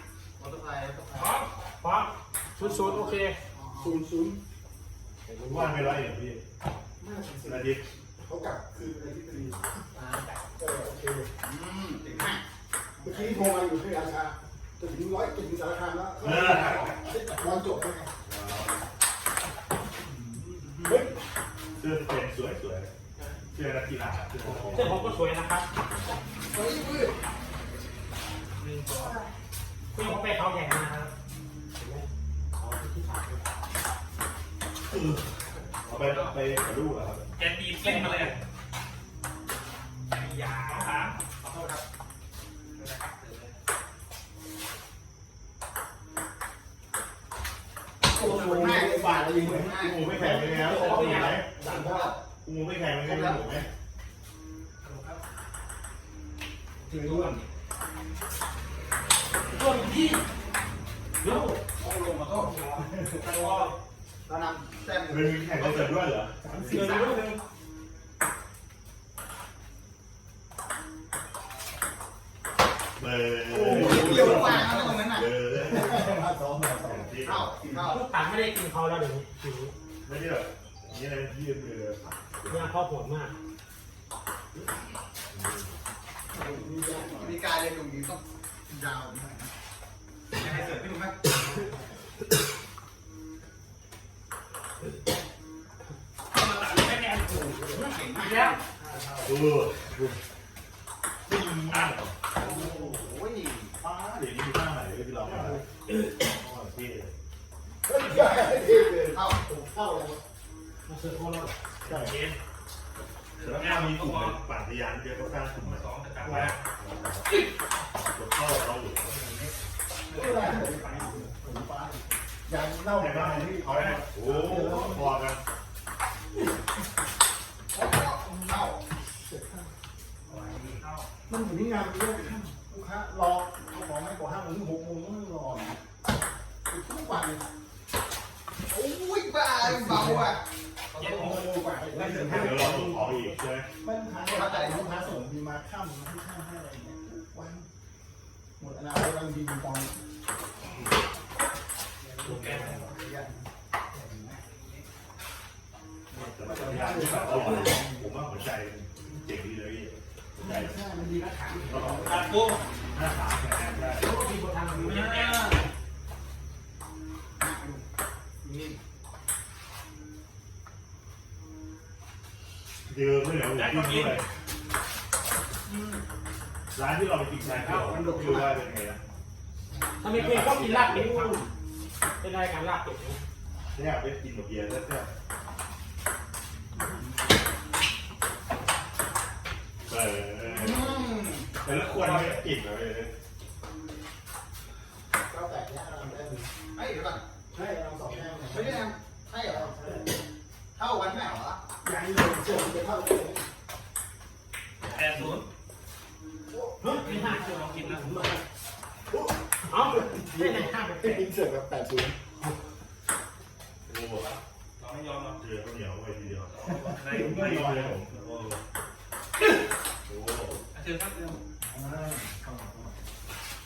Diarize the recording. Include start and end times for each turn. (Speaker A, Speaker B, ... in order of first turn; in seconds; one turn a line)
Speaker A: 0.4-1.4
Speaker B: 1.1-1.5
Speaker C: 1.8-3.4
Speaker A: 3.5-4.0
Speaker D: 3.7-4.4
Speaker C: 5.3-6.0
Speaker E: 5.4-6.4
Speaker D: 7.0-11.5
Speaker E: 7.5-7.9
Speaker A: 11.4-12.4
Speaker D: 13.0-18.1
Speaker E: 16.2-17.0
Speaker E: 18.2-18.8
Speaker D: 20.4-21.2
Speaker E: 21.8-22.9
Speaker E: 23.5-25.0
Speaker C: 24.4-25.7
Speaker A: 26.5-27.1
Speaker D: 26.6-27.1
Speaker B: 28.6-29.2
Speaker C: 29.9-31.1
Speaker C: 31.8-33.5
Speaker E: 35.8-37.3
Speaker B: 35.9-36.6
Speaker B: 37.4-38.4
Speaker C: 37.8-38.3
Speaker B: 40.1-41.2
Speaker B: 42.7-43.6
Speaker D: 48.0-52.2
Speaker A: 48.1-49.9
Speaker B: 48.2-48.8
Speaker E: 48.8-51.5
Speaker C: 50.6-51.4
Speaker A: 51.5-52.2
Speaker E: 52.4-53.7
Speaker A: 53.1-53.5
Speaker B: 54.8-55.2
Speaker C: 56.9-57.4
Speaker D: 56.9-57.3
Speaker B: 57.1-57.3
Speaker C: 59.5-60.2
Speaker C: 61.2-61.6
Speaker A: 61.8-62.6
Speaker D: 62.7-63.7
Speaker B: 63.1-63.8
Speaker A: 64.3-66.0
Speaker E: 65.1-66.4
Speaker D: 66.4-67.2
Speaker C: 66.7-67.4
Speaker B: 66.7-67.4
Speaker E: 73.0-76.3
Speaker D: 73.5-78.0
Speaker A: 73.9-75.3
Speaker E: 76.8-77.5
Speaker A: 77.2-78.1
Speaker C: 77.7-79.7
Speaker E: 80.0-82.7
Speaker C: 82.5-83.3
Speaker E: 85.3-85.7
Speaker D: 86.3-87.5
Speaker A: 87.1-89.5
Speaker D: 89.2-89.5
Speaker D: 90.4-91.4
Speaker A: 90.7-91.1
Speaker B: 96.3-98.6
Speaker D: 97.4-99.3
Speaker C: 97.8-98.6
Speaker A: 97.9-98.3
Speaker E: 99.2-100.2
Speaker E: 101.3-102.2
Speaker B: 101.7-102.0
Speaker D: 102.4-103.2
Speaker A: 102.6-103.6
Speaker E: 103.8-105.6
Speaker D: 105.2-105.6
Speaker E: 106.2-107.1
Speaker D: 107.8-110.2
Speaker A: 108.7-109.4
Speaker C: 110.8-111.6
Speaker D: 111.9-112.1
Speaker B: 111.9-112.4
Speaker B: 113.4-114.5
Speaker E: 113.4-117.4
Speaker B: 115.5-116.6
Speaker E: 118.0-119.1
Speaker D: 119.1-119.5
Speaker D: 120.1-125.2
Speaker B: 120.1-121.2
Speaker E: 122.9-125.4
Speaker B: 123.6-124.0
Speaker D: 127.7-129.7
Speaker A: 127.8-128.3
Speaker B: 130.3-131.1
Speaker D: 131.3-135.8
Speaker D: 136.7-137.4
Speaker A: 138.7-140.4
Speaker D: 138.8-140.4
Speaker D: 140.9-143.1
Speaker B: 141.0-141.5
Speaker C: 141.9-143.3
Speaker E: 142.2-143.7
Speaker D: 143.8-147.7
Speaker A: 144.3-145.2
Speaker D: 148.6-150.0
Speaker B: 152.1-152.9
Speaker D: 152.2-153.3
Speaker D: 153.9-154.8
Speaker E: 156.1-160.8
Speaker D: 156.2-158.1
Speaker D: 160.4-162.4
Speaker E: 161.7-162.3
Speaker B: 161.9-162.6
Speaker E: 162.9-164.2
Speaker C: 163.9-165.4
Speaker B: 164.7-165.6
Speaker D: 165.0-165.4
Speaker A: 167.4-167.8
Speaker D: 167.5-167.8
Speaker A: 168.4-168.8
Speaker E: 172.8-174.2
Speaker B: 173.5-174.2
Speaker A: 175.7-176.0
Speaker E: 176.7-179.0
Speaker D: 177.4-178.6
Speaker C: 180.0-181.5
Speaker E: 180.1-181.2
Speaker D: 181.1-181.5
Speaker C: 182.2-183.2
Speaker E: 183.7-185.1
Speaker E: 189.8-193.1
Speaker A: 190.5-191.5
Speaker B: 191.8-192.4
Speaker D: 195.3-196.5
Speaker A: 196.8-197.2
Speaker D: 197.5-200.2
Speaker A: 198.5-199.8
Speaker A: 200.8-201.6
Speaker D: 201.8-203.5
Speaker B: 204.8-205.5
Speaker D: 204.8-205.3
Speaker D: 206.5-208.4
Speaker C: 206.8-207.5
Speaker B: 206.8-208.4
Speaker D: 209.1-212.2
Speaker C: 209.6-211.3
Speaker E: 213.9-214.3
Speaker B: 214.1-215.4
Speaker E: 215.4-218.3
Speaker B: 216.5-218.6
Speaker D: 217.1-217.6
Speaker E: 220.1-220.6
Speaker B: 220.7-221.4
Speaker D: 221.6-223.0